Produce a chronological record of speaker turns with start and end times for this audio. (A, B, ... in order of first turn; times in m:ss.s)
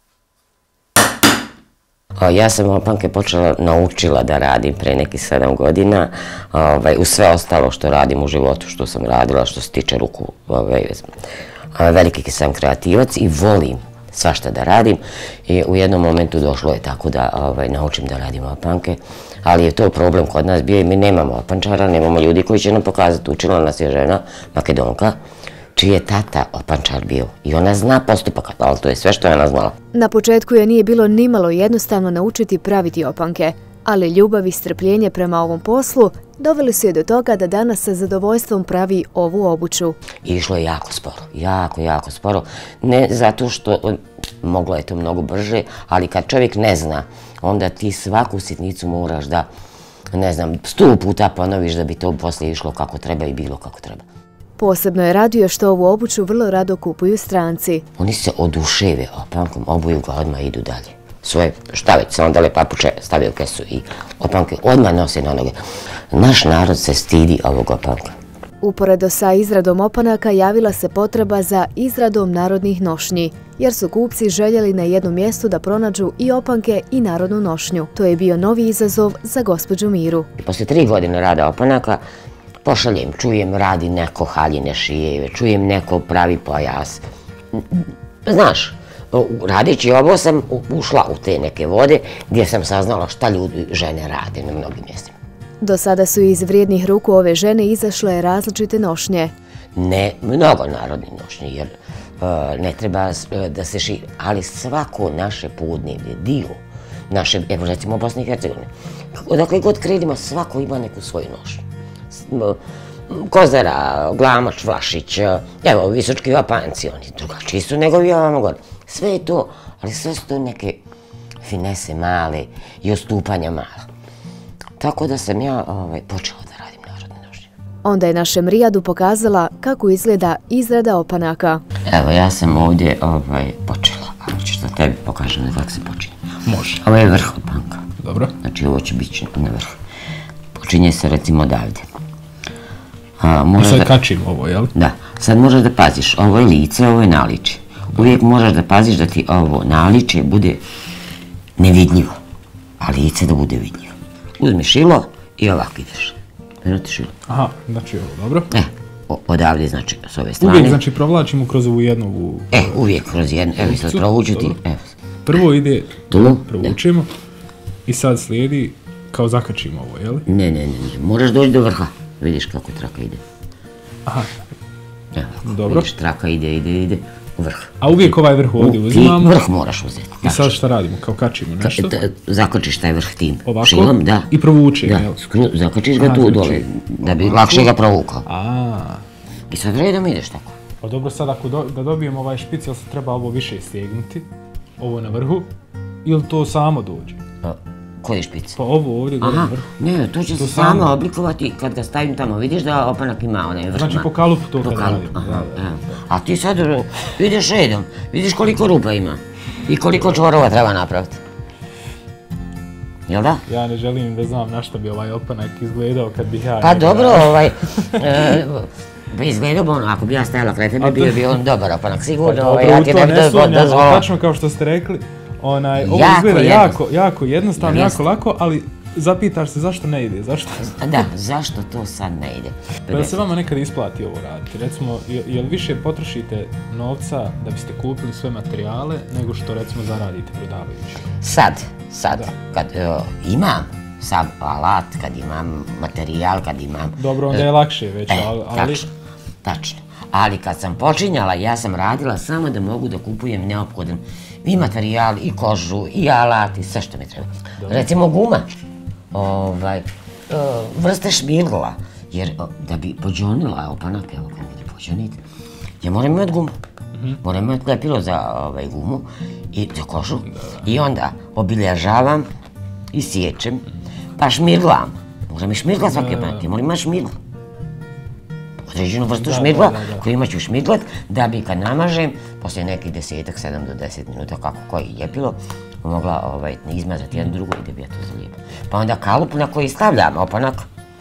0:02.2-0:11.1 A
0:11.7-0:25.2 A
0:25.8-0:29.7 A
0:29.9-0:40.0 B
0:40.2-0:49.5 A
0:50.1-0:54.0 A
0:54.6-0:57.8 B
0:58.0-1:05.6 A
1:06.1-1:08.2 A
1:08.6-1:20.3 B
1:20.4-1:22.0 A
1:22.6-1:27.0 A
1:27.5-1:35.1 A
1:35.6-1:39.3 B
1:39.7-1:46.6 A
1:47.1-2:00.8 A
2:01.4-2:03.9 A
2:04.8-2:07.5 A
2:07.8-2:11.6 B
2:11.8-2:16.2 A
2:16.4-2:16.8 C
2:16.8-2:17.9 A
2:18.0-2:18.3 C
2:18.4-2:19.8 A
2:20.5-2:21.8 A
2:23.2-2:23.9 A
2:23.6-2:24.7 C
2:24.7-2:30.6 A
2:31.6-2:32.2 A
2:32.8-2:37.1 A
2:37.3-2:38.5 C
2:38.5-2:40.8 A
2:40.4-2:42.8 C
2:42.5-2:44.9 A
2:43.6-2:44.6 C
2:45.2-2:47.1 C
2:46.1-2:46.8 A
2:47.9-2:50.2 C
2:50.2-2:53.2 A
2:55.1-3:00.5 A
2:55.4-2:55.9 C
2:57.8-2:59.4 C
3:00.2-3:02.0 C
3:01.6-3:08.2 A
3:03.4-3:05.2 C
3:06.0-3:07.7 C
3:08.2-3:09.0 C
3:09.5-3:10.5 A
3:10.8-3:14.2 C
3:14.8-3:15.5 C
3:16.0-3:17.2 C
3:17.4-3:18.6 A
3:18.6-3:19.7 C
3:19.2-3:31.2 A
3:20.4-3:20.9 C
3:23.7-3:25.7 C
3:33.1-3:33.4 A
3:33.5-3:38.3 C
3:36.6-3:44.0 A
3:40.8-3:41.3 C
3:42.2-3:50.9 C
3:45.8-3:46.8 A
3:47.6-3:48.0 A
3:50.6-3:53.2 A
3:52.9-4:01.2 C
4:01.2-4:07.5 A
4:07.0-4:08.8 C
4:08.1-4:08.9 A
4:09.4-4:18.4 A
4:17.6-4:17.9 C
4:19.1-4:25.2 A
4:25.8-4:26.5 A
4:27.2-4:32.3 A
4:32.9-4:37.2 A
4:35.9-4:36.4 C
4:38.6-4:50.6 A
4:39.2-4:40.0 C